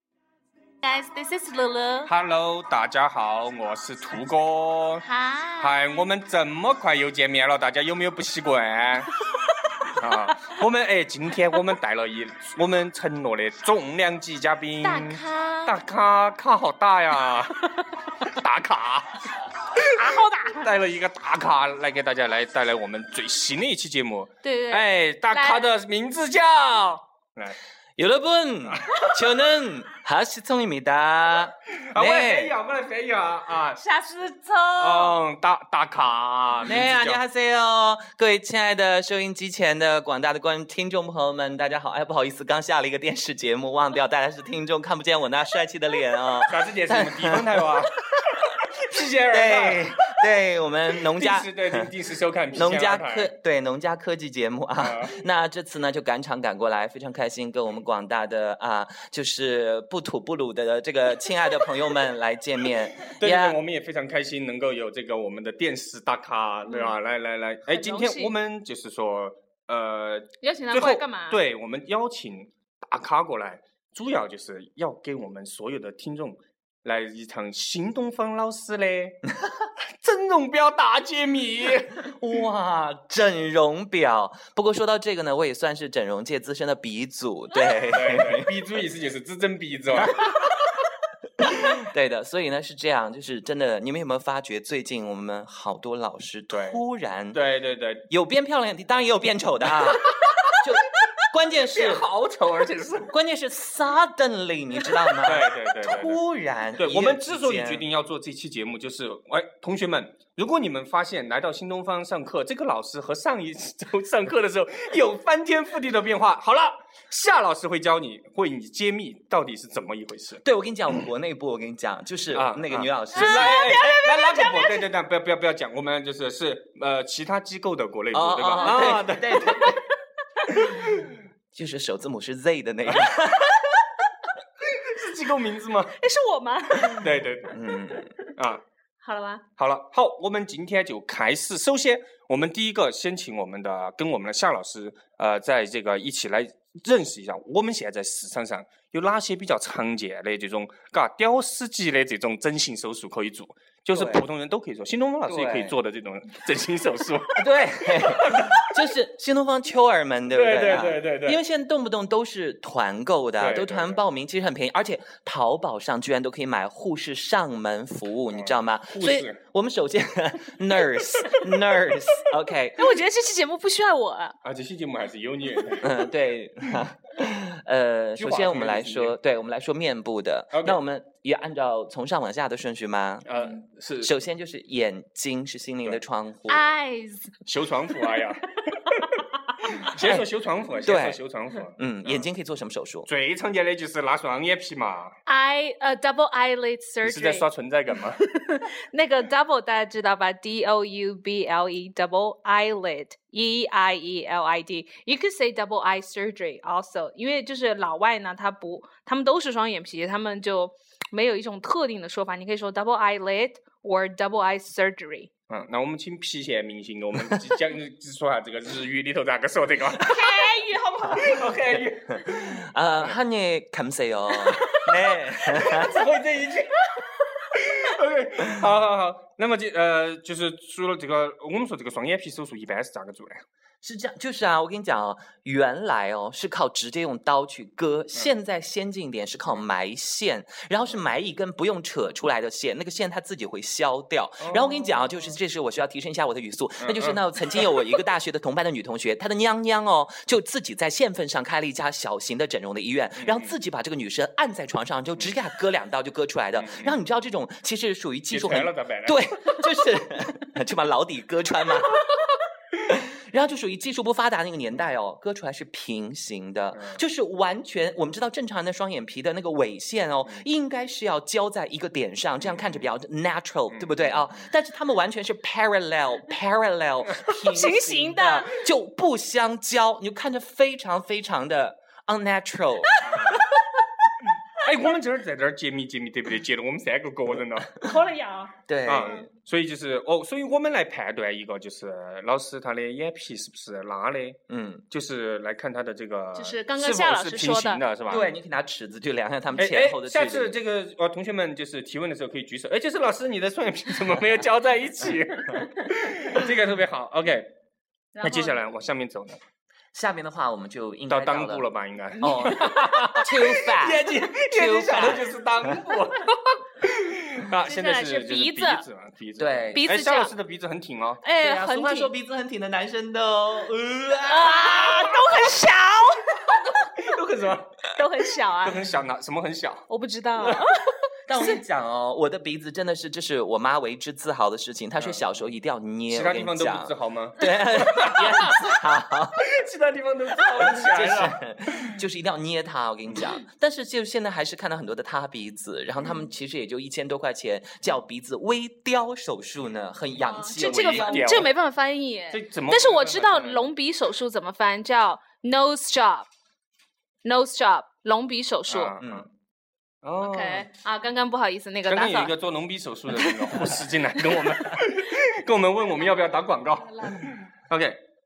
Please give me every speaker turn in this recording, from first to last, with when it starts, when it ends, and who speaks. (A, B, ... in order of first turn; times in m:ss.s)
0:00.8-0:02.1 A
0:02.1-0:05.0 B
0:05.0-0:06.0 A
0:05.6-0:09.1 B
0:09.9-0:19.9 B
0:14.8-0:15.8 A
0:19.8-0:20.8 A
0:20.6-0:27.6 B
0:24.4-0:25.7 A
0:28.0-0:32.5 C
0:28.7-0:29.2 B
0:31.8-0:33.8 B
0:33.8-0:35.2 A
0:34.8-0:37.2 B
0:36.6-0:48.4 C
0:46.4-0:50.3 B
0:49.3-0:51.9 C
0:51.1-0:53.3 B
0:52.5-1:03.6 C
0:54.8-0:55.2 B
1:03.1-1:19.2 B
1:06.7-1:07.0 A
1:07.7-1:08.4 A
1:10.4-1:11.4 A
1:20.0-1:22.1 B
1:22.1-1:28.5 C
1:27.9-1:30.3 B
1:30.0-1:30.5 C
1:31.4-1:37.4 C
1:36.5-1:36.8 B
1:37.3-1:38.0 B
1:38.1-1:42.0 C
1:39.8-1:40.6 B
1:41.7-1:43.1 B
1:43.1-1:47.8 C
1:45.2-1:46.2 B
1:46.8-2:00.4 B
2:00.4-2:03.6 C
2:02.3-2:09.7 B
2:03.2-2:04.8 A
2:08.1-2:09.8 C
2:09.4-2:09.7 A
2:10.7-2:11.1 B
2:11.5-2:13.9 C
2:14.6-2:16.0 B
2:16.0-2:17.0 A
2:16.9-2:17.6 B
2:17.5-2:18.1 C
2:18.4-2:18.6 B
2:19.0-2:19.4 A
2:19.6-2:38.9 B
2:33.9-2:34.3 C
2:35.3-2:35.8 C
2:37.4-2:53.0 C
2:40.3-2:41.4 B
2:43.4-2:44.0 B
2:48.3-2:49.4 B
2:52.8-2:54.4 A
2:54.4-2:56.0 B
2:55.8-3:03.3 C
2:58.2-2:59.2 B
3:00.5-3:00.8 B
3:03.2-3:04.1 B
3:04.0-3:06.6 C
3:06.5-3:07.4 A
3:07.5-3:12.2 B
3:10.0-3:10.2 C
3:10.8-3:11.2 C
3:11.7-3:13.1 C
3:13.1-3:15.2 B
3:15.3-3:17.4 A
3:17.0-3:18.2 B
3:18.2-3:35.3 A
3:35.5-3:40.3 B
3:40.0-3:41.5 A
3:41.2-3:43.1 B
3:41.8-3:46.0 C
3:44.5-3:46.8 B
3:47.5-3:53.4 B
3:53.8-4:22.1 C
4:04.4-4:05.4 B
4:06.8-4:07.2 B
4:13.2-4:13.5 B
4:16.6-4:16.9 B
4:18.3-4:19.6 B
4:22.9-4:43.1 C
4:26.7-4:27.0 B
4:33.7-4:34.5 B
4:37.5-4:38.6 A
4:43.0-4:43.4 A
4:43.0-4:43.4 B
4:44.6-4:47.8 B
4:47.8-4:49.3 A
4:48.7-4:49.2 C
4:48.9-4:58.3 B
4:54.5-4:54.8 C
4:56.4-4:57.8 A
4:58.1-5:00.6 C
4:59.6-5:07.5 B
5:08.2-5:08.6 A
5:08.2-5:09.4 B
5:09.9-5:11.7 C
5:11.1-5:21.2 B
5:12.2-5:15.7 C
5:12.3-5:13.2 A
5:17.6-5:18.8 A
5:19.4-5:19.8 C
5:19.7-5:20.3 A
5:21.2-5:22.1 A
5:21.4-5:25.3 C
5:24.2-5:26.4 A
5:26.7-5:27.8 B
5:27.9-5:28.8 A
5:28.6-5:29.9 B
5:29.9-5:30.9 A
5:30.4-5:30.6 B
5:31.3-5:39.5 C
5:35.0-5:35.2 B
5:36.1-5:38.8 B
5:39.4-5:42.0 B
5:40.5-5:51.5 C
5:50.2-5:56.3 A
5:50.6-5:51.5 B
5:52.3-5:53.7 B
5:57.2-5:59.0 A
5:58.7-5:59.3 B
5:59.0-5:59.3 C
6:00.0-6:00.7 B
6:00.2-6:02.3 A
6:01.9-6:08.0 B
6:06.0-6:07.3 A